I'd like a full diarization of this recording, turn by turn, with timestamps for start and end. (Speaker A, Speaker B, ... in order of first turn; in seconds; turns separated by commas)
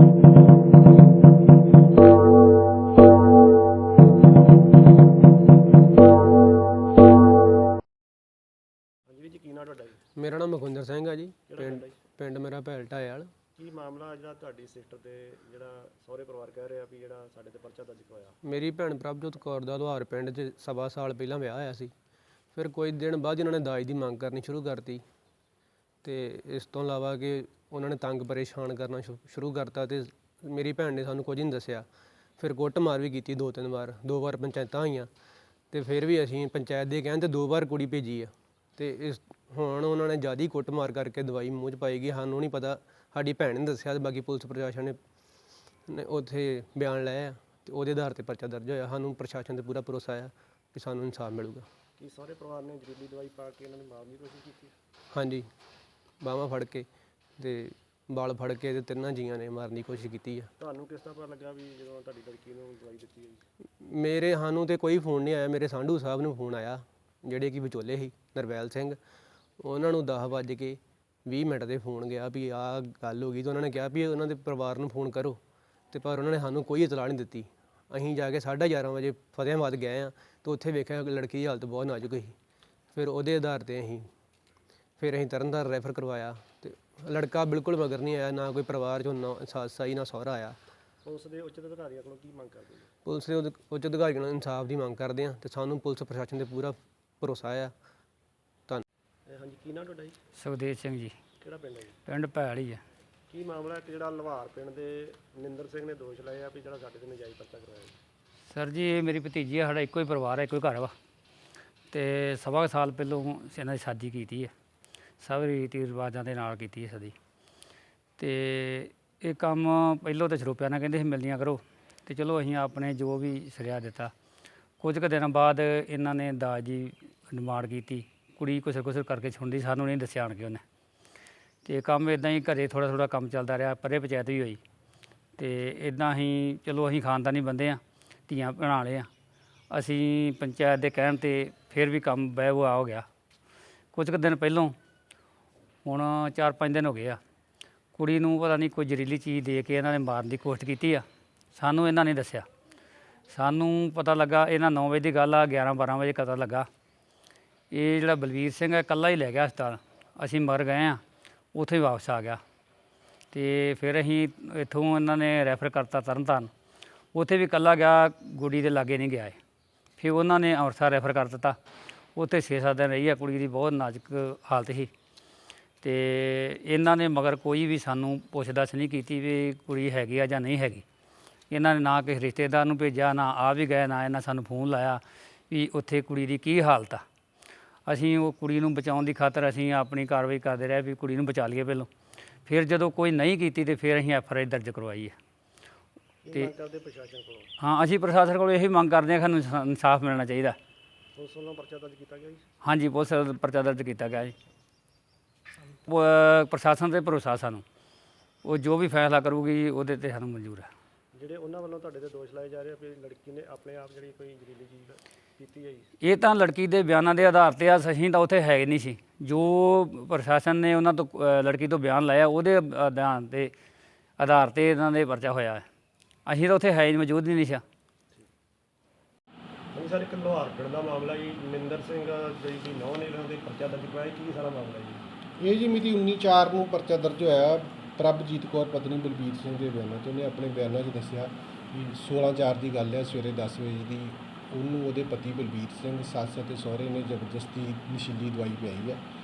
Speaker A: 9.1-10.0, Speaker B: 10.2-13.3, Speaker A: 11.5-12.0, Speaker A: 13.6-18.3, Speaker B: 18.4-21.9, Speaker B: 22.5-25.0, Speaker B: 26.0-31.9, Speaker B: 32.4-35.1, Speaker B: 35.7-45.0, Speaker B: 45.9-51.7, Speaker A: 52.0-54.7, Speaker B: 55.1-55.5, Speaker B: 56.2-56.9, Speaker B: 57.4-60.5, Speaker A: 60.6-63.4, Speaker B: 63.8-69.0, Speaker B: 69.6-75.4, Speaker B: 75.9-82.3, Speaker B: 82.9-84.0, Speaker B: 85.0-90.5, Speaker A: 91.0-92.9, Speaker B: 93.0-97.7, Speaker A: 99.3-100.2, Speaker C: 100.4-101.1, Speaker A: 101.4-101.9, Speaker C: 102.0-102.8, Speaker A: 103.3-108.0, Speaker C: 108.5-110.9, Speaker C: 111.9-114.5, Speaker C: 115.2-117.1, Speaker C: 118.2-124.1, Speaker C: 124.8-130.6, Speaker C: 131.6-134.6, Speaker C: 135.4-139.1, Speaker C: 139.7-143.0, Speaker C: 143.9-144.8, Speaker C: 145.8-147.2, Speaker C: 147.9-151.0, Speaker C: 151.5-152.4, Speaker C: 153.3-156.7, Speaker C: 157.7-161.0, Speaker C: 161.5-162.4, Speaker C: 163.3-166.5, Speaker C: 167.1-169.4, Speaker C: 170.0-171.6, Speaker C: 172.2-174.9, Speaker C: 175.8-180.8, Speaker C: 181.5-187.0, Speaker C: 187.8-191.9, Speaker C: 192.4-195.2, Speaker A: 196.2-197.5, Speaker C: 197.6-200.6, Speaker A: 201.2-202.4, Speaker C: 202.6-204.3, Speaker C: 205.8-207.6, Speaker C: 208.4-210.7, Speaker A: 211.1-215.9, Speaker C: 216.0-223.5, Speaker C: 224.2-225.6, Speaker C: 226.2-227.6, Speaker A: 229.7-235.0, Speaker D: 235.4-249.0